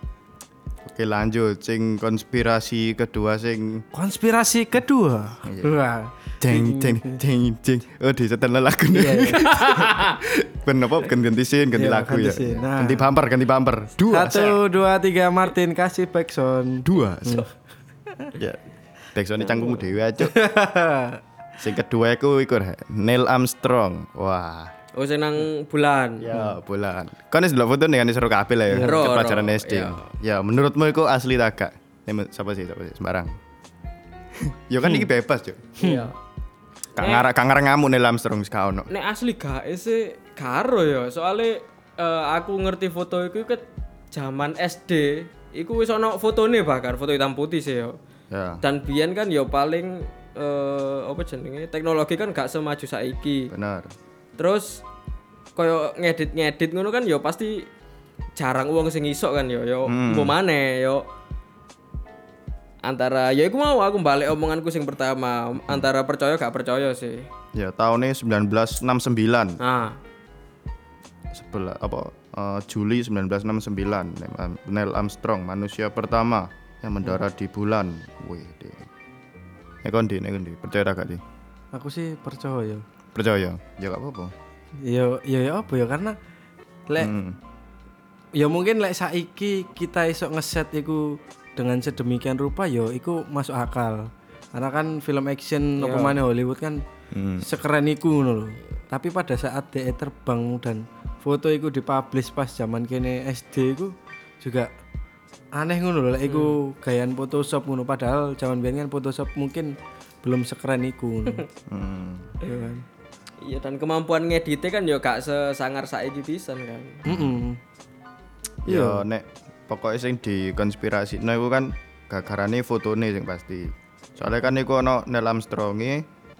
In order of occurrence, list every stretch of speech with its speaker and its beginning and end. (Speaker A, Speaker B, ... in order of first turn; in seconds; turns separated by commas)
Speaker A: 0.9-3.9, Speaker B: 3.9-7.2, Speaker A: 5.4-5.8, Speaker A: 6.4-14.6, Speaker B: 8.9-9.6, Speaker C: 9.5-10.2, Speaker B: 11.8-13.1, Speaker B: 14.1-17.5, Speaker A: 16.9-17.5, Speaker A: 19.1-20.4, Speaker B: 20.2-21.2, Speaker A: 21.6-24.7, Speaker C: 24.9-26.3, Speaker A: 26.2-33.3, Speaker B: 28.7-29.1, Speaker C: 28.8-30.1, Speaker A: 34.3-35.8, Speaker B: 35.8-36.1, Speaker C: 35.8-36.1, Speaker A: 37.0-38.9, Speaker C: 37.0-37.3, Speaker C: 38.9-48.0, Speaker A: 48.3-48.6, Speaker C: 48.6-53.5, Speaker A: 53.5-53.9, Speaker C: 54.4-54.8, Speaker C: 55.6-57.7, Speaker C: 58.4-61.0, Speaker A: 59.9-60.4, Speaker C: 62.8-67.3, Speaker A: 67.5-69.6, Speaker C: 69.6-70.0, Speaker A: 71.3-78.9, Speaker A: 79.8-81.2, Speaker B: 81.7-82.8, Speaker A: 83.1-84.3, Speaker B: 84.8-86.2, Speaker B: 86.9-87.1, Speaker A: 87.0-87.4, Speaker B: 88.3-96.8, Speaker C: 95.8-96.2, Speaker A: 97.1-97.5, Speaker B: 97.4-104.7, Speaker B: 105.5-111.5, Speaker C: 106.3-106.6, Speaker A: 111.7-112.3, Speaker B: 112.4-112.8, Speaker C: 113.4-117.0, Speaker B: 117.0-117.6, Speaker A: 117.1-117.4, Speaker A: 118.6-126.1, Speaker B: 118.7-119.0